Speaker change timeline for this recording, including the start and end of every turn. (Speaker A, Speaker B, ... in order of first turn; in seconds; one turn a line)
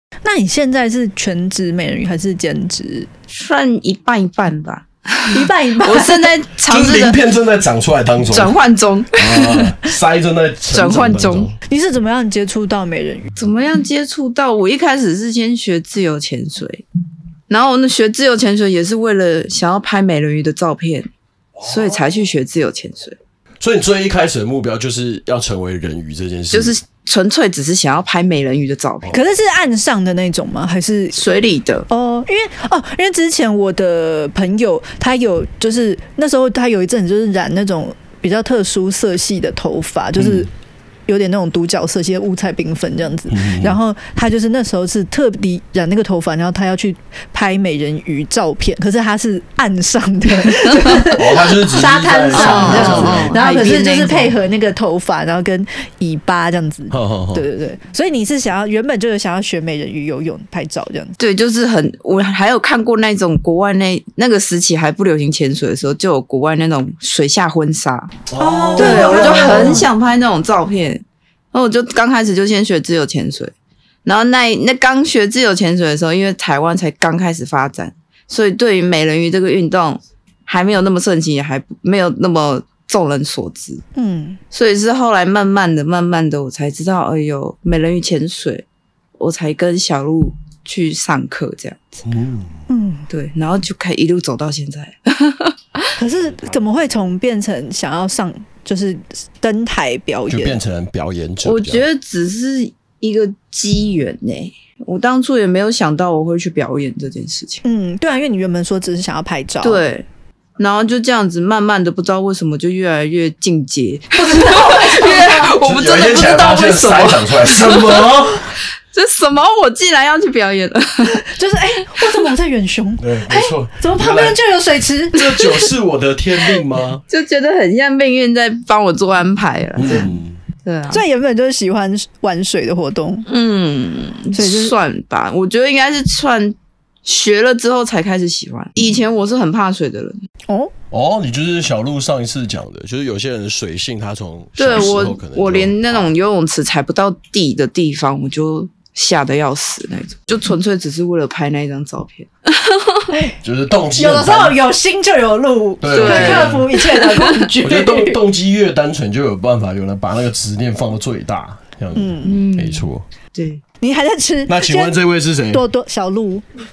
Speaker A: 0.2-3.1
Speaker B: 3.3-7.2
Speaker A: 5.3-6.3
Speaker C: 6.7-8.6
Speaker B: 8.3-9.8
Speaker C: 9.1-11.5
Speaker B: 10.7-11.5
Speaker A: 11.7-13.3
Speaker B: 13.4-16.9
Speaker B: 17.5-21.1
Speaker B: 21.6-23.2
Speaker C: 21.6-22.0
Speaker C: 23.6-26.8
Speaker B: 26.5-29.1
Speaker A: 29.1-31.2
Speaker B: 31.1-31.9
Speaker A: 31.9-40.5
Speaker C: 40.2-40.5
Speaker A: 41.1-61.2
Speaker C: 43.3-43.8
Speaker C: 51.1-53.4
Speaker B: 52.3-54.4
Speaker C: 56.9-57.5
Speaker B: 61.2-73.5
Speaker C: 68.3-69.8
Speaker A: 68.7-69.9
Speaker B: 74.0-83.8
Speaker A: 84.0-84.4
Speaker B: 84.5-88.7
Speaker B: 89.2-91.9
Speaker C: 92.1-92.5
Speaker A: 92.7-93.1
Speaker B: 93.1-95.9
Speaker A: 96.0-100.6
Speaker C: 100.3-101.8
Speaker B: 101.4-107.6
Speaker A: 107.6-109.9
Speaker B: 109.6-110.1
Speaker B: 110.6-118.1
Speaker A: 114.2-115.5
Speaker C: 115.6-118.5
Speaker B: 118.9-121.2
Speaker A: 121.1-125.2
Speaker C: 123.0-124.4
Speaker C: 125.1-127.0
Speaker B: 127.1-130.1
Speaker C: 129.8-130.4
Speaker B: 130.6-131.0
Speaker A: 130.9-133.3
Speaker B: 133.3-140.2
Speaker A: 134.3-134.8
Speaker A: 140.5-140.7
Speaker C: 140.9-146.1
Speaker B: 144.6-153.1
Speaker A: 153.1-153.4
Speaker C: 153.4-154.6
Speaker A: 153.9-158.2
Speaker C: 155.8-156.7
Speaker B: 155.9-157.5
Speaker C: 157.6-163.1
Speaker A: 161.9-162.4
Speaker B: 162.2-162.8
Speaker B: 163.3-163.6
Speaker A: 163.8-165.0
Speaker C: 164.5-165.6
Speaker A: 165.5-166.4